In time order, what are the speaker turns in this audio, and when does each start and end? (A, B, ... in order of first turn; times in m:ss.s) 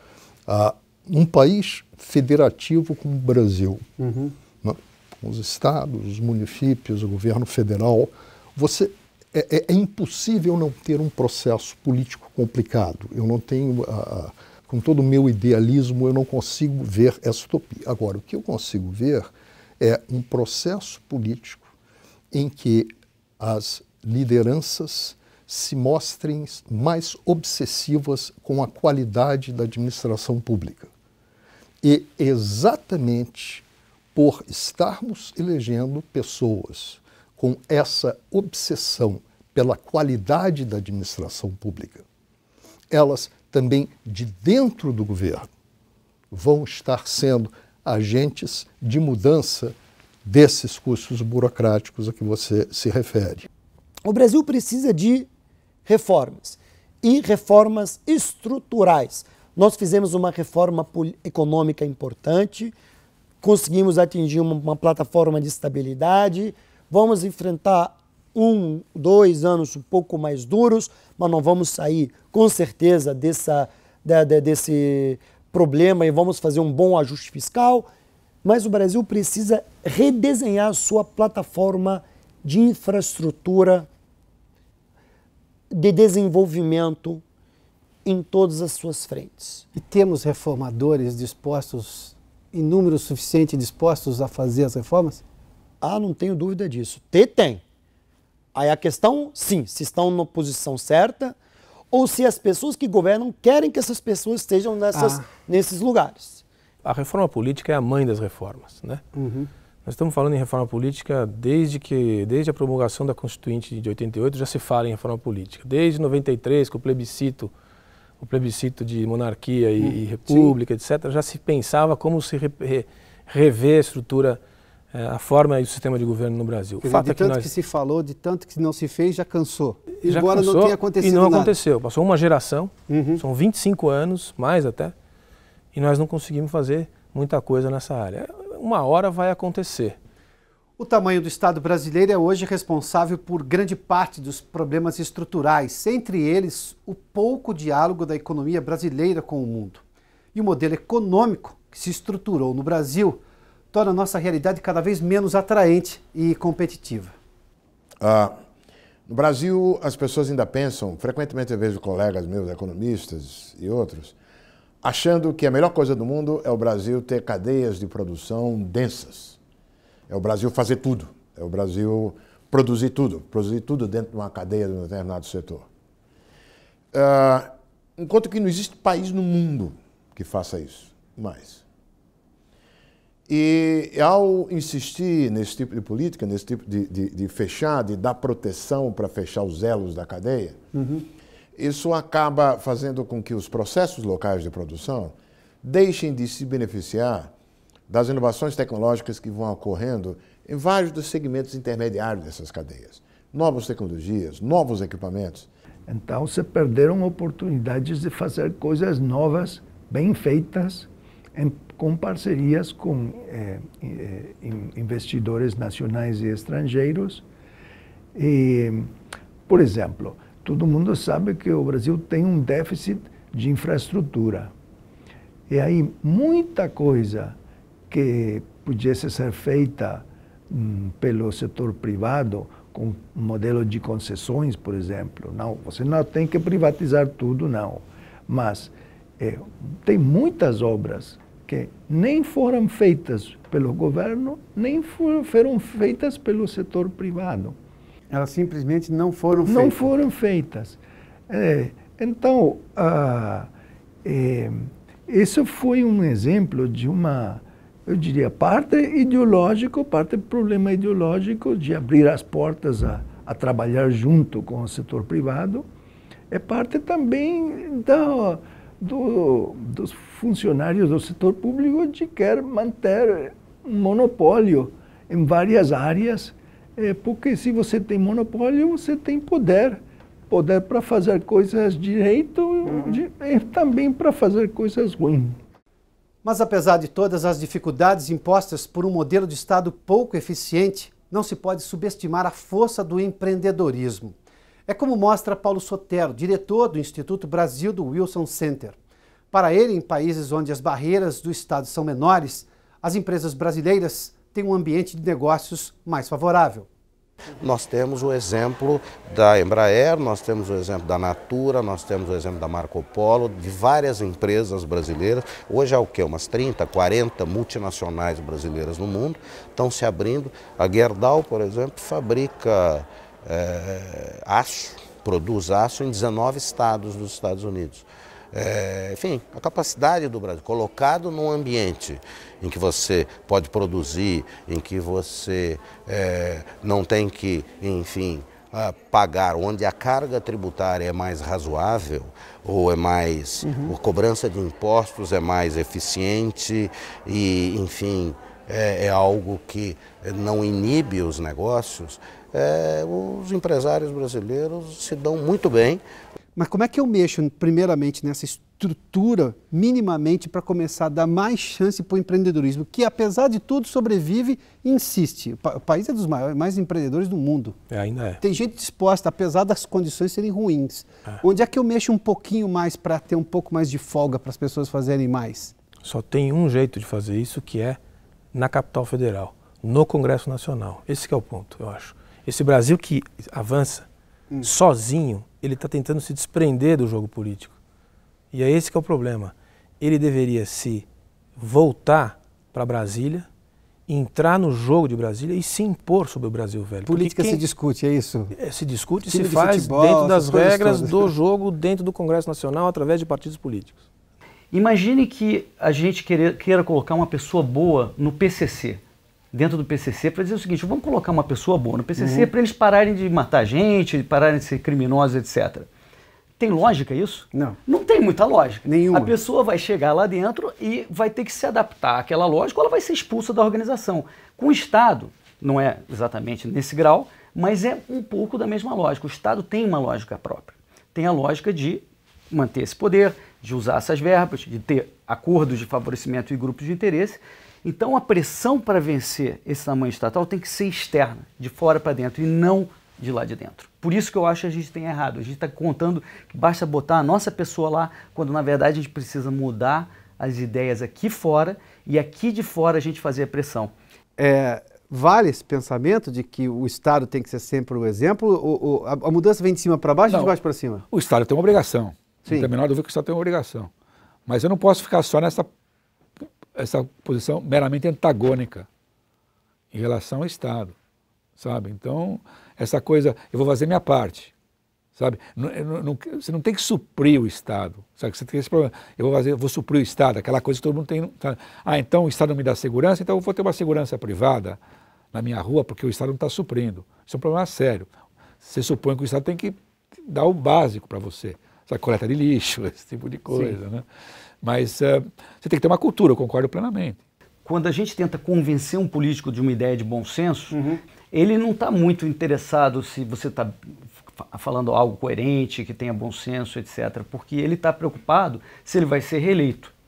0:00.5-0:03.9 A
0:04.0-0:04.3 B
0:04.6-0:21.7 A
0:22.3-0:30.9 A
0:31.8-0:42.0 A
0:42.9-0:45.5 A
0:46.3-0:53.5 A
0:54.0-0:55.3 C
0:55.8-1:02.7 C
1:03.4-1:17.9 C
1:18.4-1:23.9 C
1:25.7-1:27.2 C
1:28.0-1:29.6 C
1:29.7-1:35.2 B
1:35.8-1:37.6 C
1:38.5-1:41.4 C
1:41.9-1:46.4 C
1:44.9-1:45.3 B
1:46.8-1:49.0 D
1:49.1-1:49.5 B
1:49.8-1:57.5 D
1:58.2-2:04.4 D
1:59.8-2:00.6 B
2:04.9-2:07.5 D
2:06.8-2:11.5 B
2:10.0-2:14.9 D
2:12.9-2:13.2 B
2:15.7-2:20.0 D
2:20.8-2:29.8 B
2:30.3-2:33.2 B
2:33.7-2:37.1 B
2:38.0-2:38.3 E
2:39.1-2:44.1 E
2:44.8-2:49.4 E
2:50.1-2:55.6 E
2:56.9-3:01.6 E
3:03.3-3:10.6 E
3:10.7-3:11.0 B
3:11.6-3:17.3 E
3:17.9-3:25.5 E
3:25.9-3:37.2 F
3:38.1-3:38.9 F
3:39.5-3:44.5 F
3:45.5-3:47.4 F
3:47.9-4:07.6 F
4:08.1-4:09.9 B
4:09.4-4:13.5 F
4:14.0-4:25.7 F
4:26.3-4:45.4 F
4:42.6-4:43.0 B
4:46.2-4:54.2 B
4:54.7-4:58.8 B
4:59.3-5:06.7 B
5:07.4-5:55.8 G
5:43.4-5:43.7 B
5:56.4-6:07.6 B
6:07.7-6:08.2 D
6:08.2-6:15.5 B
6:15.8-6:17.8 D
6:18.3-6:23.9 D
6:24.4-6:27.6 D
6:28.3-6:33.3 D
6:33.9-6:37.4 D
6:36.8-6:38.3 B
6:38.3-6:43.8 D
6:39.0-6:41.1 B
6:44.5-6:48.8 H
6:49.3-6:55.7 H
6:52.0-6:52.3 B
6:56.4-7:33.7 H
6:58.6-6:59.1 B
7:34.2-7:40.8 B
7:40.1-7:40.4 I
7:40.9-7:43.7 I
7:42.3-7:42.5 B
7:44.3-7:45.5 I
7:46.5-7:48.7 I
7:49.7-7:50.7 I
7:51.4-7:54.3 I
7:55.0-8:04.6 I
8:05.1-8:07.9 I
8:08.4-8:13.8 I
8:13.3-8:13.6 B
8:14.4-8:17.0 I
8:17.4-8:23.6 H
8:20.5-8:20.8 B
8:24.2-8:29.7 H